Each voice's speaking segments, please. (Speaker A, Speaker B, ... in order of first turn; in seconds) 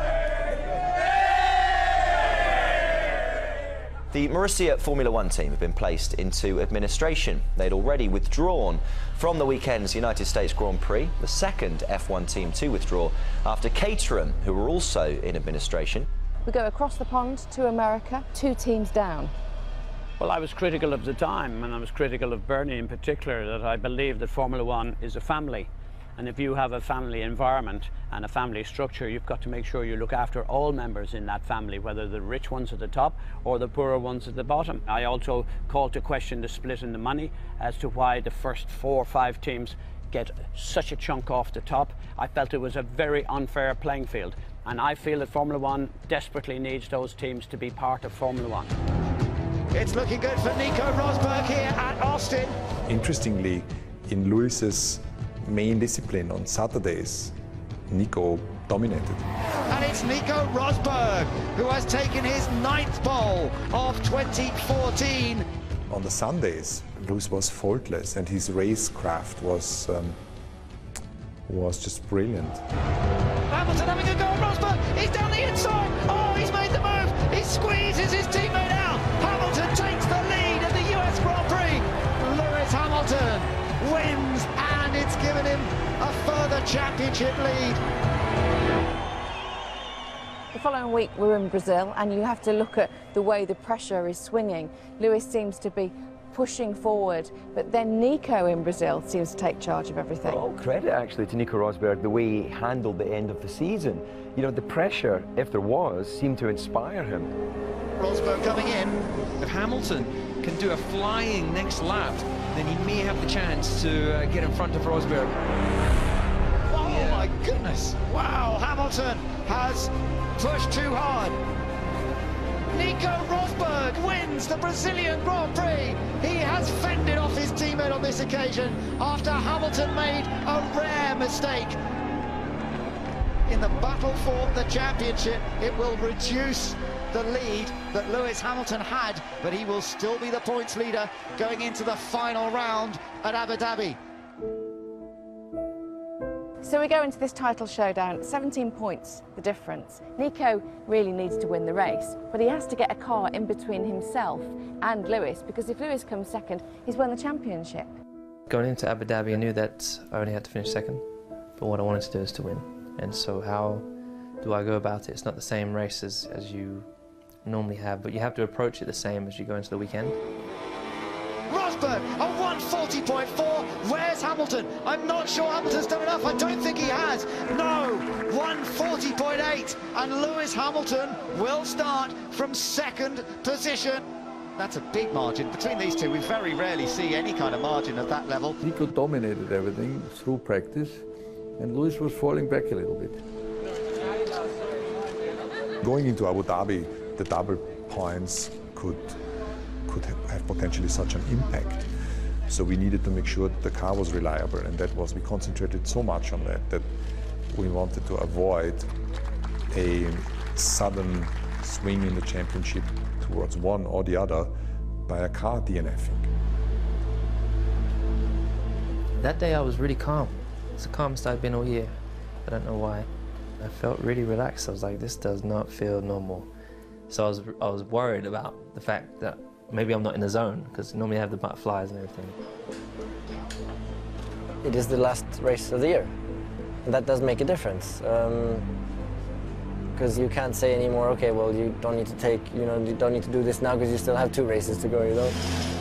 Speaker A: 4.1-16.1
Speaker B: 16.4-19.3, 90.5-100.5, 146.6-157.9
Speaker C: 20.2-48.7
Speaker D: 49.7-52.5, 59.7-65.5, 73.5-87.8, 108.0-109.0, 116.7-121.4, 122.7-131.8, 133.5-144.0, 171.5-184.0, 184.6-188.6
Speaker E: 52.9-57.3, 57.9-59.2, 65.9-70.2, 71.5-72.6, 195.8-199.2, 199.8-201.8, 202.5-206.9, 207.5-208.9, 209.7-214.5, 215.1-216.3
Speaker F: 100.2-107.3
Speaker G: 109.4-115.4, 116.8-117.3
Speaker H: 158.5-161.0, 161.6-163.9, 164.4-166.9, 167.4-170.2, 219.2-223.1, 223.6-226.5, 227.1-232.4
Speaker I: 188.6-191.0, 191.6-193.2
Speaker J: 234.6-236.1, 236.8-238.7, 239.9-245.3